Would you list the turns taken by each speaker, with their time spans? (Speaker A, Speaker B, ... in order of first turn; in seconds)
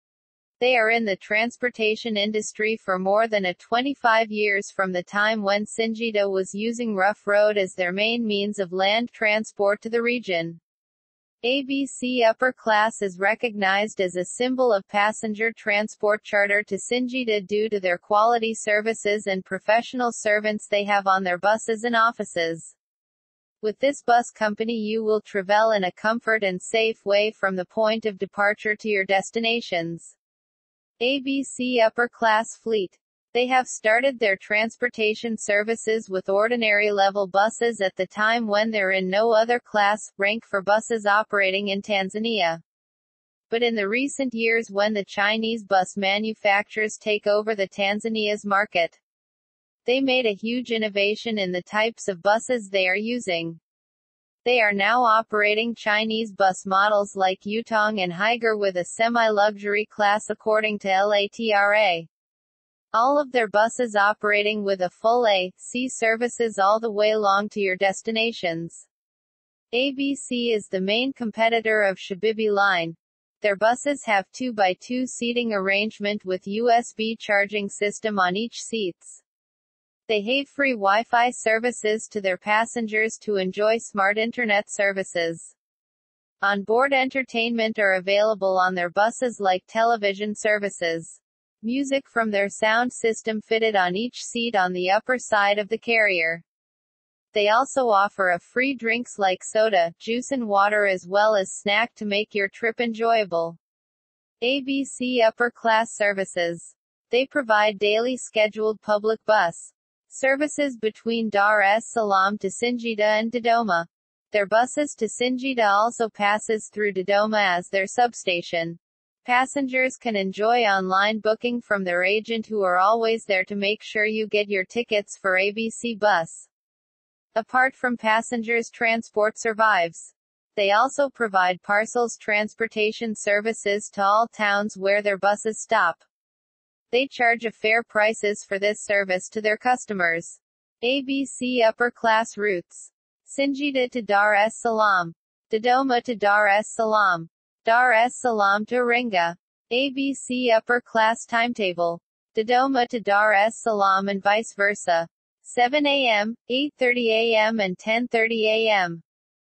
Speaker A: 0.6-10.6, 11.4-22.8, 23.6-30.1, 31.0-42.6, 43.5-49.0, 49.9-53.6, 54.4-62.1, 62.9-68.9, 69.7-79.2, 80.1-85.5, 86.4-96.4, 97.3-103.6, 104.4-126.5, 127.3-136.0, 136.9-159.0